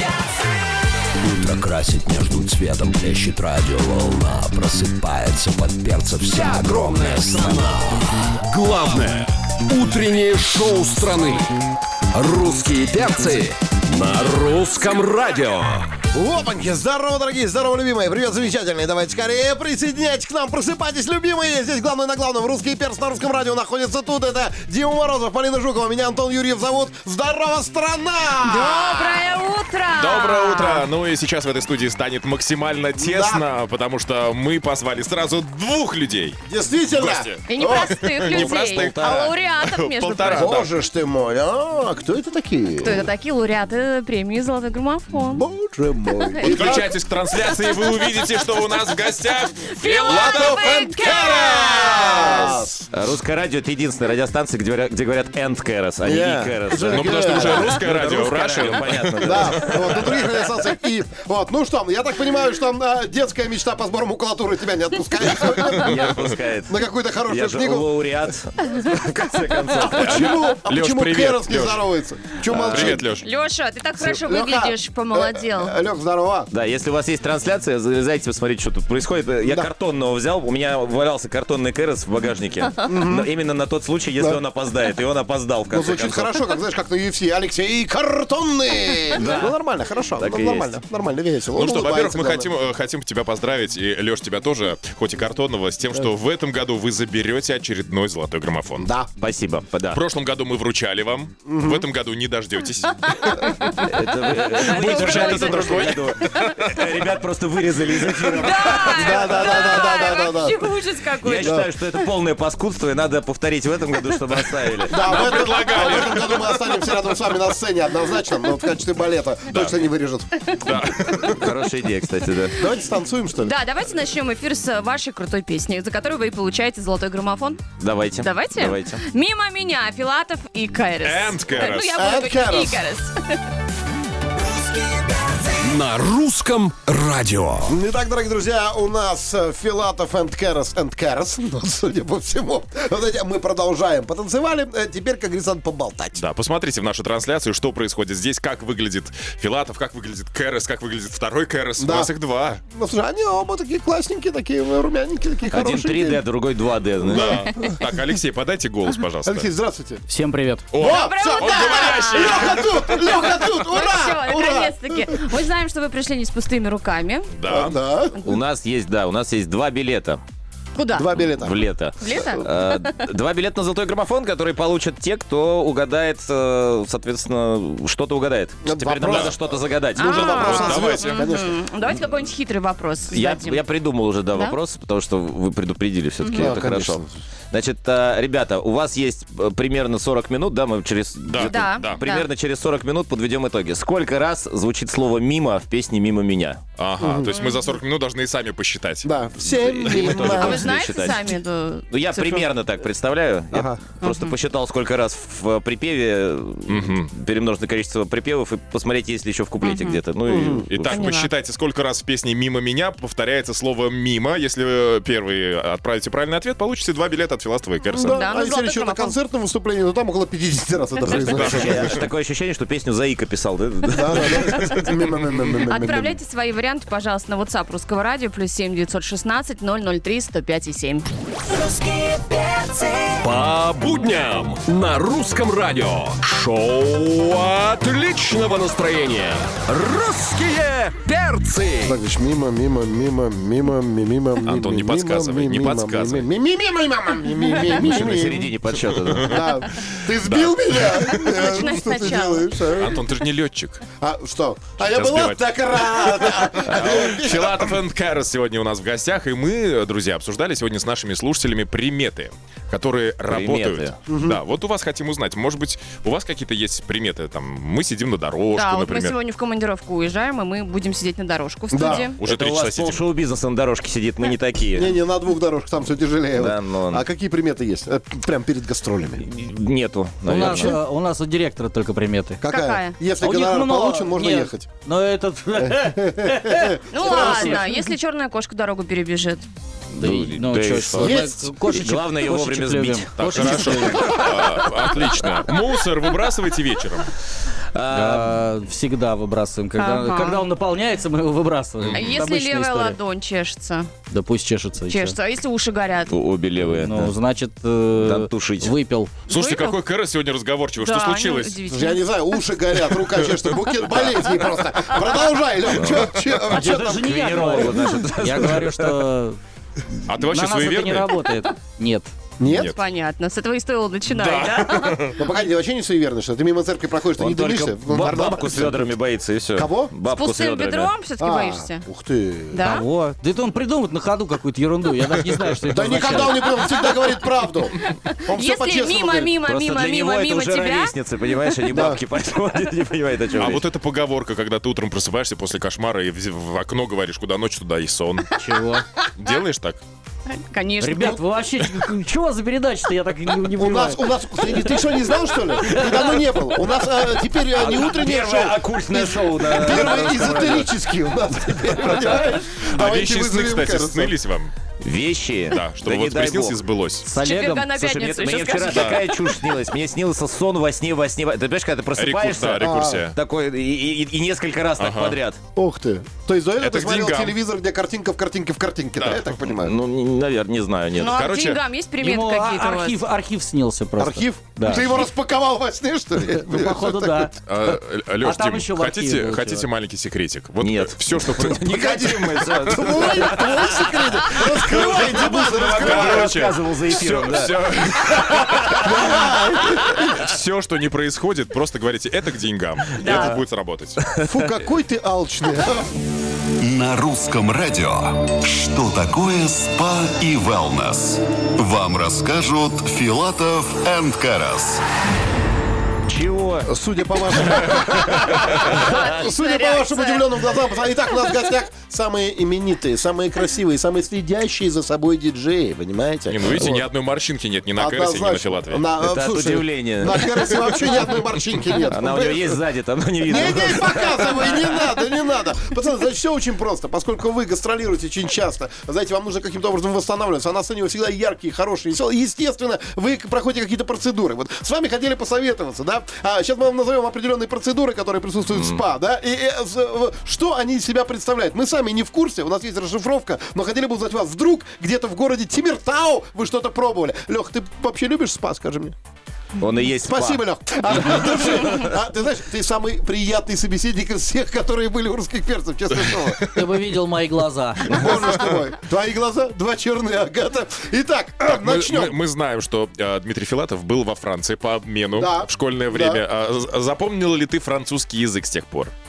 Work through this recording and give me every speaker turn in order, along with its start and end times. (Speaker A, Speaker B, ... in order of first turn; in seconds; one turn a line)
Speaker A: 1.3-7.6
Speaker B: 6.9-7.5
Speaker B: 8.5-11.5
Speaker B: 12.1-15.8
Speaker C: 16.1-29.2
Speaker D: 28.4-30.9
Speaker E: 30.0-36.4
Speaker C: 33.0-33.4
Speaker C: 36.5-37.9
Speaker E: 36.9-39.0
Speaker D: 37.4-40.5
Speaker F: 38.2-39.3
Speaker E: 39.5-40.7
Speaker C: 40.3-43.1
Speaker D: 42.8-45.5
Speaker C: 45.3-46.9
Speaker D: 46.2-49.1
Speaker E: 46.4-52.6
Speaker D: 49.6-52.6
Speaker C: 50.1-52.9
Speaker F: 52.9-60.2
Speaker C: 56.0-57.7
Speaker E: 56.9-60.0
Speaker C: 59.2-73.1
Speaker F: 65.8-70.0
Speaker D: 69.7-70.5
Speaker E: 69.9-71.8
Speaker E: 72.5-73.3
Speaker D: 73.1-75.7
Speaker C: 74.0-76.5
Speaker F: 76.5-86.4
Speaker C: 79.4-79.7
Speaker C: 82.8-83.3
Speaker C: 85.7-92.5
Speaker F: 89.2-89.5
Speaker F: 90.2-90.8
Speaker E: 91.5-98.9
Speaker C: 98.8-99.1
Speaker F: 99.2-100.0
Speaker E: 99.9-103.0
Speaker C: 101.4-101.9
Speaker D: 103.0-105.7
Speaker F: 103.8-109.5
Speaker E: 104.5-107.0
Speaker D: 108.3-111.5
Speaker C: 108.9-110.7
Speaker F: 111.2-115.0
Speaker C: 111.4-111.7
Speaker C: 114.9-120.4
Speaker E: 115.0-116.6
Speaker E: 119.5-119.8
Speaker E: 120.6-121.5
Speaker D: 120.9-121.3
Speaker F: 121.3-122.6
Speaker C: 122.5-123.6
Speaker D: 123.3-133.4
Speaker F: 127.8-129.0
Speaker E: 131.0-131.9
Speaker C: 131.9-132.8
Speaker B: 135.6-137.7
Speaker C: 137.7-146.2
Speaker E: 146.2-152.6
Speaker C: 151.8-152.1
Speaker C: 152.7-156.2
Speaker F: 155.5-157.4
Speaker C: 157.0-157.7
Speaker E: 157.1-159.5
Speaker C: 159.2-160.0
Speaker G: 160.1-160.7
Speaker E: 160.7-163.0
Speaker C: 160.7-165.1
Speaker D: 160.8-167.3
Speaker E: 167.3-167.8
Speaker C: 167.4-168.2
Speaker F: 168.2-170.2
Speaker D: 170.7-171.2
Speaker C: 170.9-171.6
Speaker F: 171.2-180.8
Speaker D: 172.0-172.8
Speaker C: 178.6-181.6
Speaker E: 179.0-179.4
Speaker D: 179.9-183.7
Speaker E: 180.4-181.2
Speaker F: 183.1-196.6
Speaker D: 184.3-184.6
Speaker D: 186.2-186.6
Speaker C: 186.3-187.1
Speaker E: 191.2-192.0
Speaker D: 191.5-192.3
Speaker E: 196.8-199.2
Speaker C: 197.0-197.3
Speaker D: 197.2-197.7
Speaker C: 199.0-200.7
Speaker F: 199.4-201.3
Speaker E: 199.8-200.5
Speaker D: 200.3-202.5
Speaker F: 201.9-211.1
Speaker C: 203.5-203.8
Speaker D: 204.0-204.3
Speaker E: 206.7-207.1
Speaker D: 209.6-210.0
Speaker C: 210.2-210.7
Speaker E: 210.7-218.2
Speaker D: 210.8-211.3
Speaker C: 217.9-221.9
Speaker D: 218.1-219.2
Speaker F: 221.1-224.6
Speaker E: 221.2-222.0
Speaker C: 223.9-226.2
Speaker D: 225.7-231.1
Speaker B: 233.2-241.9
Speaker C: 241.8-248.5
Speaker E: 244.4-246.2
Speaker F: 247.7-249.4
Speaker E: 249.0-249.4
Speaker C: 249.2-253.0
Speaker E: 250.2-251.8
Speaker D: 251.3-252.8
Speaker E: 252.8-253.8
Speaker C: 254.0-257.8
Speaker E: 254.8-269.1
Speaker F: 263.3-263.9
Speaker C: 264.1-264.4
Speaker D: 268.5-272.2
Speaker C: 271.7-272.1
Speaker E: 272.2-273.0
Speaker F: 272.2-274.9
Speaker C: 274.7-279.2
Speaker F: 276.4-277.0
Speaker F: 279.2-280.8
Speaker G: 280.2-282.4
Speaker C: 280.4-280.8
Speaker C: 282.4-284.7
Speaker D: 282.5-283.0
Speaker G: 283.2-287.9
Speaker C: 285.6-287.6
Speaker D: 286.9-289.5
Speaker F: 289.9-294.3
Speaker G: 289.9-294.9
Speaker C: 291.0-291.5
Speaker E: 293.3-297.1
Speaker F: 297.7-298.3
Speaker G: 297.9-303.0
Speaker D: 299.8-300.4
Speaker E: 301.8-302.1
Speaker D: 301.9-303.9
Speaker G: 304.1-305.2
Speaker D: 304.9-306.1
Speaker F: 306.1-307.1
Speaker G: 306.6-309.2
Speaker F: 308.0-308.7
Speaker E: 309.3-311.6
Speaker D: 309.3-309.8
Speaker D: 310.7-312.4
Speaker C: 311.7-317.7
Speaker E: 313.8-314.1
Speaker F: 315.7-319.0
Speaker G: 316.5-319.4
Speaker E: 320.1-321.0
Speaker G: 320.1-322.1
Speaker C: 322.4-322.7
Speaker E: 322.4-322.8
Speaker D: 322.6-325.2
Speaker E: 324.1-325.2
Speaker C: 325.1-328.9
Speaker F: 327.2-330.9
Speaker C: 329.5-329.9
Speaker D: 330.1-331.8
Speaker C: 331.2-332.6
Speaker D: 332.5-332.8
Speaker G: 332.6-336.4
Speaker C: 335.7-339.3
Speaker D: 336.2-341.6
Speaker F: 339.4-343.6
Speaker C: 341.7-342.0
Speaker E: 343.4-348.3
Speaker G: 348.4-348.9
Speaker E: 349.2-349.8
Speaker D: 350.3-351.2
Speaker G: 350.8-354.8
Speaker C: 353.6-364.1
Speaker G: 355.6-356.2
Speaker F: 357.5-360.7
Speaker E: 362.0-364.5
Speaker F: 364.8-366.6
Speaker E: 365.6-367.1
Speaker G: 367.1-367.7
Speaker D: 367.1-369.3
Speaker F: 367.7-375.4
Speaker E: 368.6-369.0
Speaker E: 371.9-373.1
Speaker C: 372.6-373.1
Speaker E: 374.8-375.2
Speaker C: 375.6-379.7
Speaker E: 376.6-377.3
Speaker E: 379.0-379.2
Speaker F: 379.5-381.1
Speaker D: 380.9-383.0
Speaker E: 381.1-381.6
Speaker G: 382.0-385.1
Speaker C: 384.0-387.3
Speaker G: 386.2-387.6
Speaker E: 387.5-393.6
Speaker G: 388.2-389.7
Speaker F: 390.6-397.6
Speaker C: 391.7-396.4
Speaker E: 394.5-399.3
Speaker F: 398.1-398.9
Speaker C: 398.7-400.2
Speaker E: 399.9-404.0
Speaker D: 403.0-403.3
Speaker F: 403.0-403.4
Speaker F: 404.0-404.4
Speaker C: 404.2-405.9
Speaker H: 406.6-414.8
Speaker F: 416.1-416.7
Speaker C: 416.6-426.9
Speaker D: 418.7-421.4
Speaker E: 426.3-428.9
Speaker C: 427.7-432.6
Speaker F: 429.0-430.9
Speaker F: 431.9-434.8
Speaker C: 433.2-458.9
Speaker F: 448.5-448.8
Speaker F: 459.6-461.2
Speaker C: 460.0-466.5
Speaker G: 466.5-468.2
Speaker C: 467.9-472.1
Speaker E: 471.4-478.9
Speaker C: 475.1-476.2